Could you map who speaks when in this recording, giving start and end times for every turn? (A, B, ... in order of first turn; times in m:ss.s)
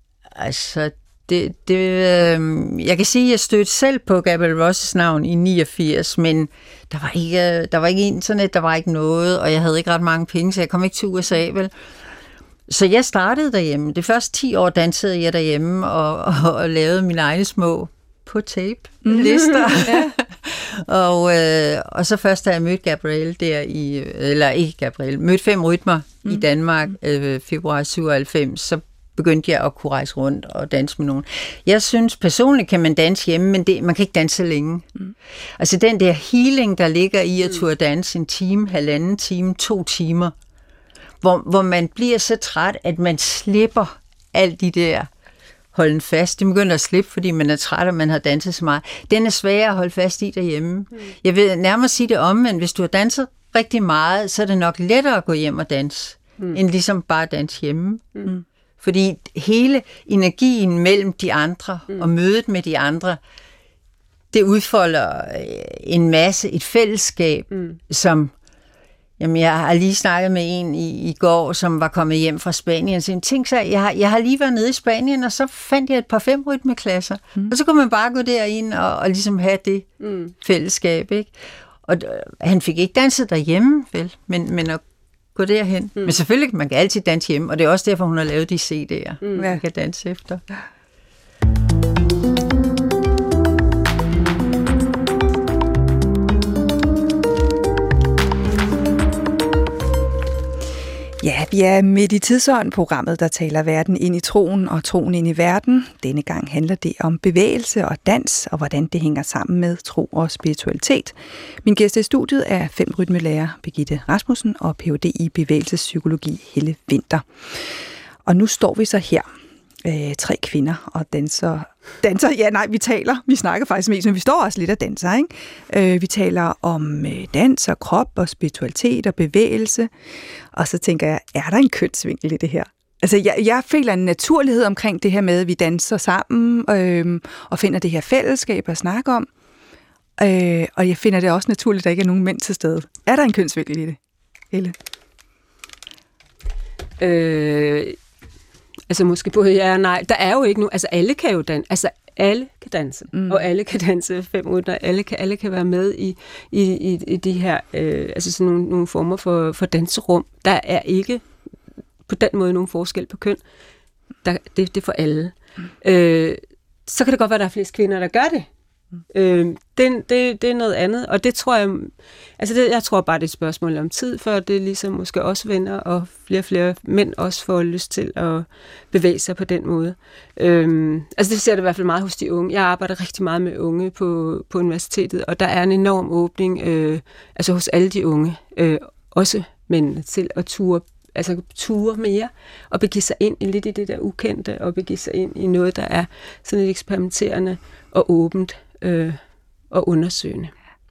0:00.3-0:11.7 A
0:12.7-0:34.9 A
0:19.0-0:20.2 B
0:35.6-0:40.3 A
0:41.2-0:45.1 A
0:45.7-0:58.3 A
0:58.8-1:03.2 A
1:04.3-1:08.3 A
1:07.5-1:07.8 C
1:09.2-1:21.3 A
1:20.0-1:20.3 C
1:21.8-1:24.8 A
1:25.3-1:30.4 A
1:29.2-1:29.5 C
1:41.2-1:57.2 B
1:58.3-1:59.3 B
1:59.8-2:09.9 B
2:10.5-2:19.3 B
2:20.2-2:24.0 B
2:27.0-2:28.0 C
2:28.9-2:41.2 C
2:33.1-2:33.4 B
2:42.1-2:43.4 C
2:44.2-2:48.5 C
2:49.1-3:19.2 C
3:19.7-3:20.5 C